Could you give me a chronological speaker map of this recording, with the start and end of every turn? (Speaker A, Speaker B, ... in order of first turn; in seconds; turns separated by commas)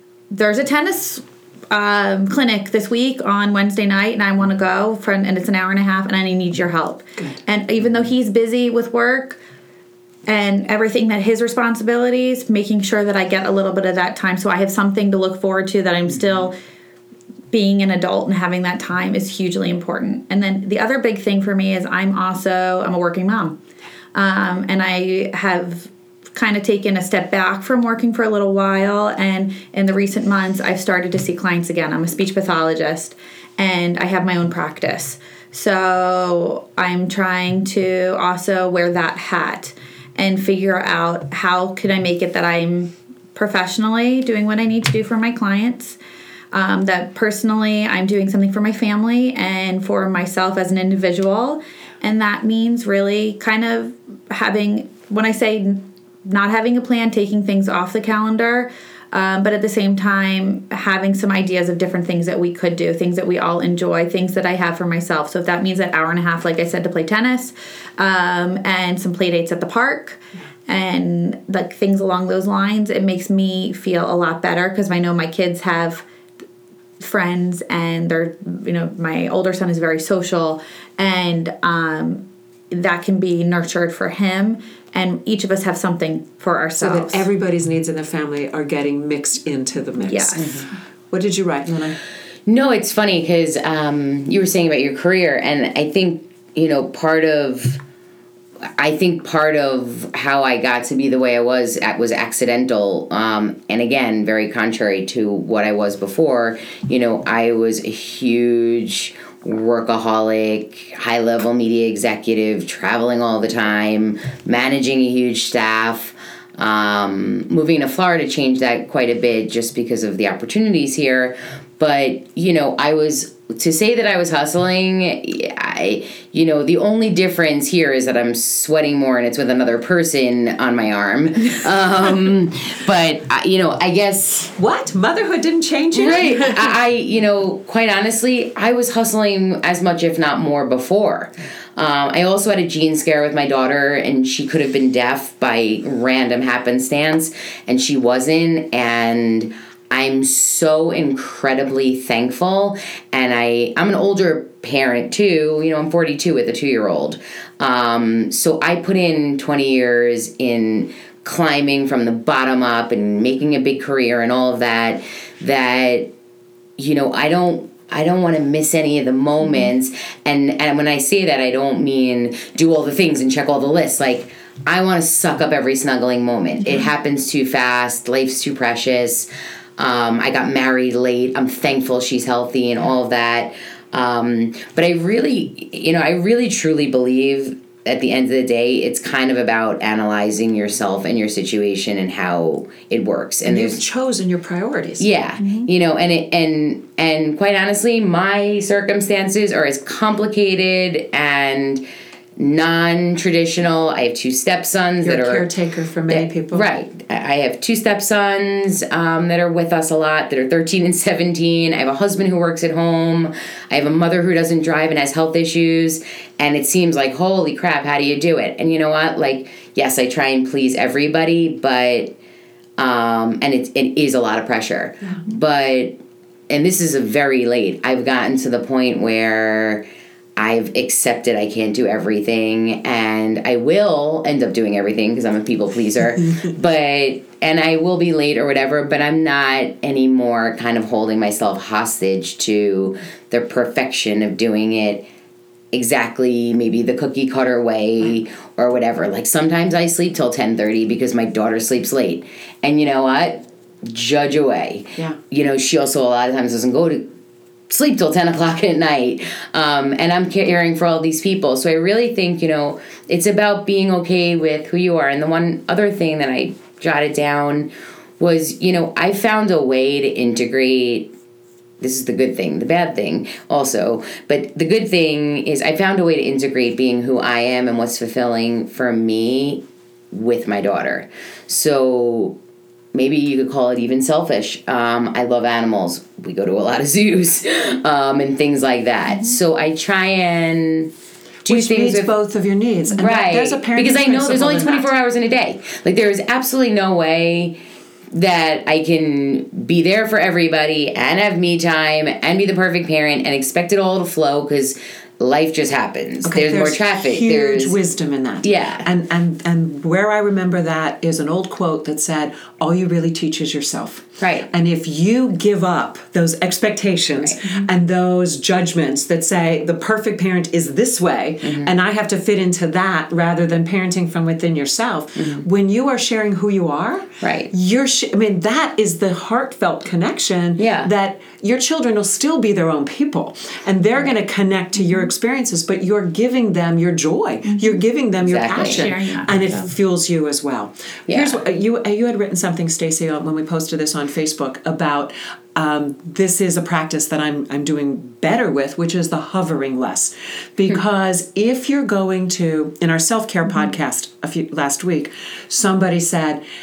Speaker A: 0.3-9.4, Speaker A: 10.3-16.6, Speaker A: 17.5-23.6, Speaker A: 24.1-46.0, Speaker A: 46.5-76.0, Speaker A: 77.0-87.2, Speaker B: 86.8-92.0, Speaker A: 90.0-90.7, Speaker C: 90.4-90.7, Speaker C: 92.5-97.8, Speaker C: 98.6-134.5, Speaker B: 134.6-136.7, Speaker C: 135.9-166.1, Speaker C: 166.8-193.8, Speaker B: 193.5-195.1, Speaker C: 195.0-201.8, Speaker A: 195.4-195.7, Speaker C: 202.4-205.5, Speaker B: 205.0-206.7, Speaker C: 206.1-222.2, Speaker C: 222.8-226.0, Speaker C: 226.5-229.8, Speaker C: 230.4-245.1, Speaker C: 245.7-257.1, Speaker C: 257.7-271.1, Speaker C: 271.8-282.4, Speaker C: 282.9-290.9, Speaker A: 289.1-289.4, Speaker C: 291.5-292.1, Speaker B: 291.5-294.9, Speaker C: 293.0-297.6, Speaker C: 298.1-307.8, Speaker B: 306.2-356.4, Speaker C: 308.4-308.9, Speaker C: 314.2-314.5, Speaker C: 317.2-317.7, Speaker C: 321.4-321.7, Speaker C: 325.2-325.4, Speaker C: 327.2-327.5, Speaker C: 330.6-330.9, Speaker A: 334.8-335.1, Speaker A: 337.5-337.8, Speaker C: 338.2-338.9, Speaker A: 338.5-339.7, Speaker C: 341.1-341.4